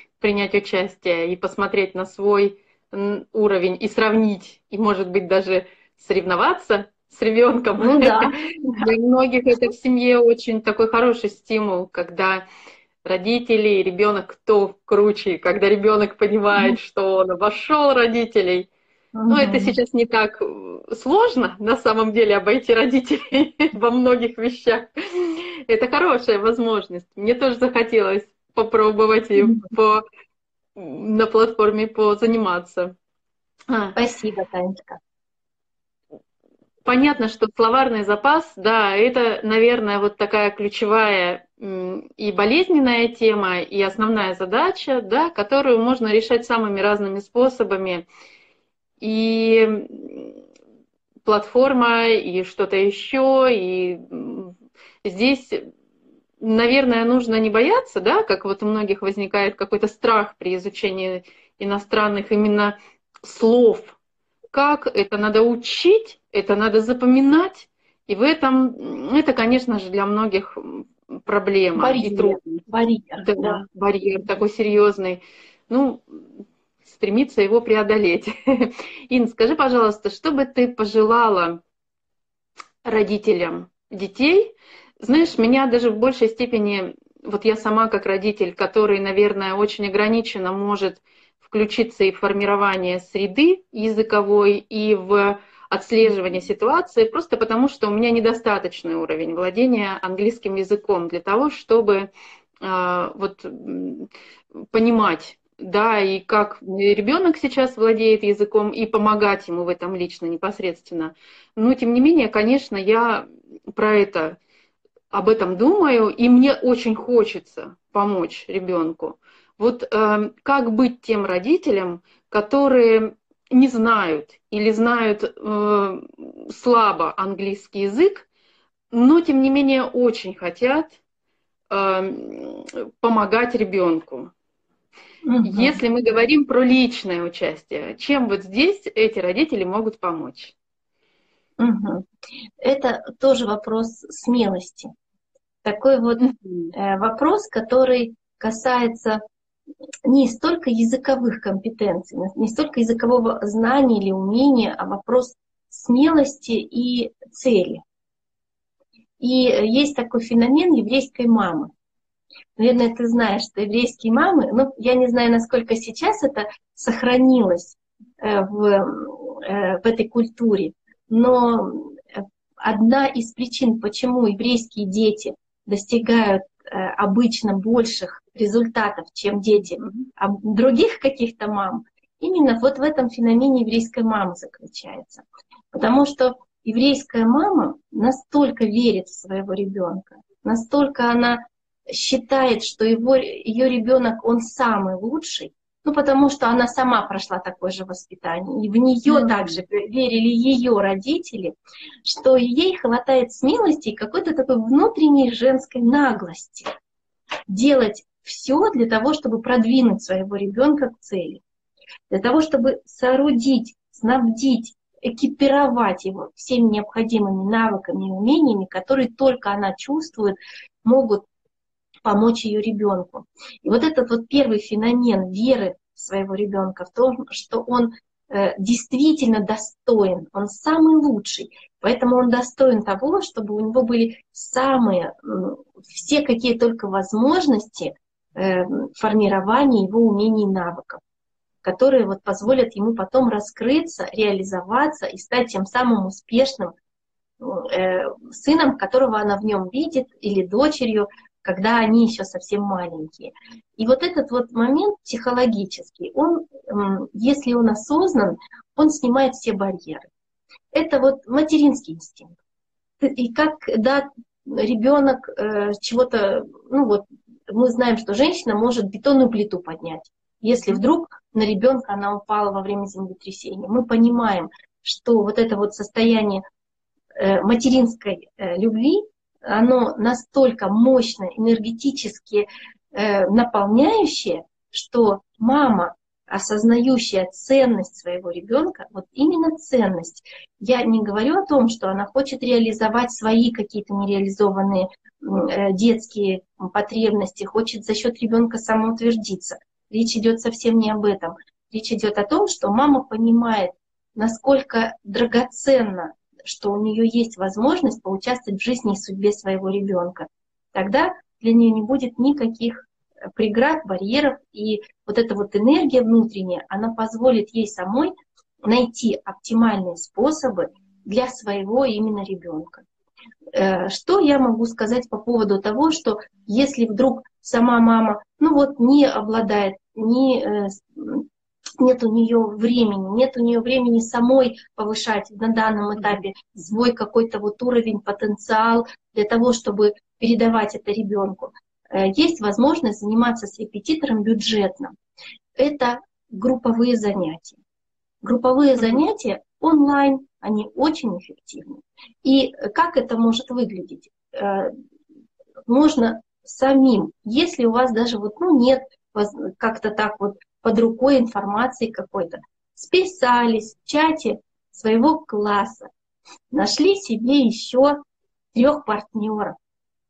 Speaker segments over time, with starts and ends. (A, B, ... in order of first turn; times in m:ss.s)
0:00.2-0:12.4 A
0:07.8-0:08.8 B
0:13.0-0:18.7 A
0:19.2-0:19.8 B
0:19.3-0:30.0 A
0:29.4-0:29.7 B
0:30.8-0:33.0 A
0:33.7-0:34.0 A
0:34.0-0:35.0 B
0:36.8-0:48.1 A
0:49.0-0:50.4 A
0:51.2-0:55.7 A
0:56.4-1:04.0 A
1:04.5-1:12.6 A
1:11.8-1:13.6 B
1:13.2-1:21.6 A
1:22.8-1:42.1 A
1:42.6-1:54.4 A
1:55.1-2:08.3 A
2:08.9-2:11.0 A
2:11.7-2:14.3 A
2:15.2-2:15.8 B
2:15.4-2:20.6 A
2:21.6-2:22.1 B
2:22.6-2:24.9 B
2:25.6-2:29.2 B
2:26.2-2:26.7 A
2:30.1-2:37.8 B
2:39.2-2:41.7 B
2:42.6-3:21.5 B
3:19.1-3:19.6 A
3:22.0-3:26.7 B
3:27.5-3:31.4 B
3:32.1-3:41.3 B
3:42.0-4:01.0 B
4:01.6-4:06.8 B
4:07.4-4:20.1 B
4:20.7-4:22.4 B
4:23.0-4:36.4 B
4:37.2-5:18.1 B
5:18.6-5:22.8 B
5:23.5-5:31.3 B
5:31.8-5:44.9 B
5:45.6-5:47.6 B
5:48.2-5:54.8 B
5:55.7-6:05.9 B
6:06.5-6:08.0 B
6:08.5-6:09.6 B